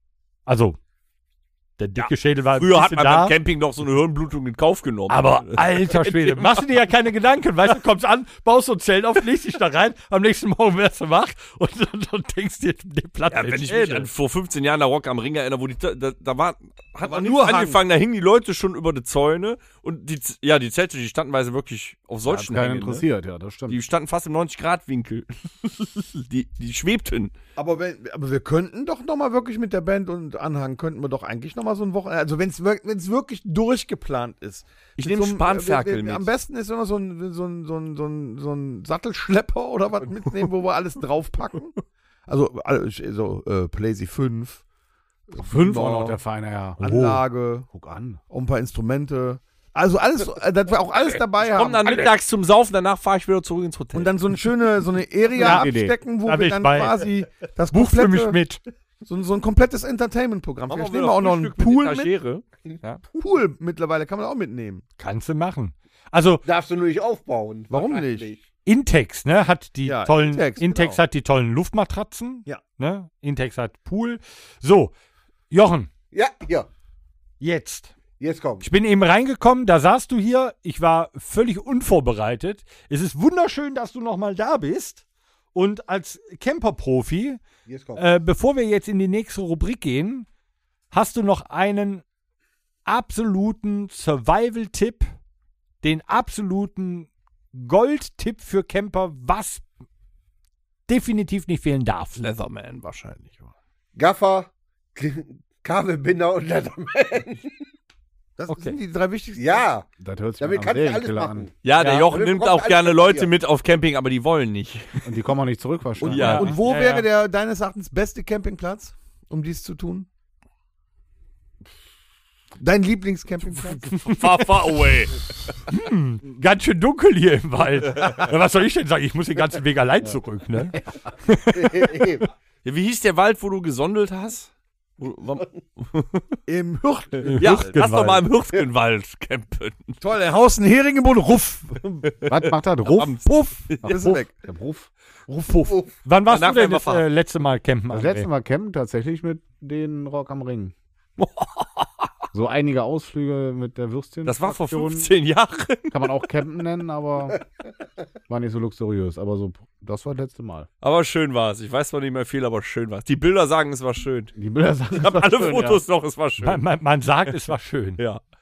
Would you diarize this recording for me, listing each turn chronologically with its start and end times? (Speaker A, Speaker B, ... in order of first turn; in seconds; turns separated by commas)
Speaker A: 0.5-0.8, Speaker A: 1.8-3.4, Speaker B: 1.9-6.7, Speaker A: 5.1-14.1, Speaker B: 13.3-23.0, Speaker C: 17.0-17.8, Speaker D: 22.2-23.8, Speaker B: 23.7-27.3, Speaker C: 27.6-44.6, Speaker B: 35.0-36.3, Speaker C: 45.3-46.2, Speaker D: 45.3-46.8, Speaker A: 46.8-47.2, Speaker C: 46.8-47.7, Speaker D: 47.7-48.2, Speaker C: 48.3-52.1, Speaker B: 51.4-54.1, Speaker C: 53.9-58.4, Speaker D: 55.3-56.0, Speaker A: 55.4-55.7, Speaker A: 56.2-57.0, Speaker A: 57.7-58.6, Speaker C: 59.0-62.1, Speaker B: 60.7-63.0, Speaker C: 63.1-64.8, Speaker A: 65.0-66.4, Speaker E: 66.4-68.4, Speaker C: 67.7-68.3, Speaker A: 68.6-74.9, Speaker C: 69.8-71.0, Speaker A: 75.5-75.9, Speaker E: 76.1-76.7, Speaker A: 77.4-77.9, Speaker E: 78.2-78.7, Speaker A: 78.6-85.0, Speaker A: 85.5-87.4, Speaker E: 87.7-88.0, Speaker A: 88.0-90.3, Speaker A: 90.9-92.0, Speaker A: 92.8-95.1, Speaker A: 95.8-99.6, Speaker A: 100.9-102.2, Speaker B: 102.2-103.5, Speaker E: 103.9-107.5, Speaker C: 108.4-109.7, Speaker A: 108.5-108.8, Speaker E: 109.3-109.9, Speaker D: 110.0-111.5, Speaker E: 110.4-111.5, Speaker B: 111.6-115.1, Speaker A: 111.8-112.1, Speaker E: 112.0-113.3, Speaker D: 115.0-116.5, Speaker C: 116.0-120.1, Speaker B: 116.1-116.5, Speaker A: 116.1-117.1, Speaker C: 122.6-124.0, Speaker A: 123.9-124.6, Speaker B: 124.0-125.1, Speaker A: 125.7-132.1, Speaker E: 131.5-132.2, Speaker B: 132.6-136.4, Speaker C: 136.5-137.8, Speaker A: 137.2-138.3, Speaker B: 137.3-140.0, Speaker C: 140.0-142.0, Speaker B: 142.0-144.0, Speaker D: 142.2-144.9, Speaker C: 143.8-144.3, Speaker A: 145.3-148.3, Speaker E: 145.6-145.9, Speaker B: 146.2-147.1, Speaker D: 147.9-150.7, Speaker B: 151.2-151.9, Speaker D: 152.3-155.1, Speaker B: 154.2-156.0, Speaker D: 155.9-157.4, Speaker D: 158.3-160.7, Speaker B: 160.8-164.3, Speaker D: 164.3-165.8, Speaker B: 164.9-166.6, Speaker A: 166.4-168.0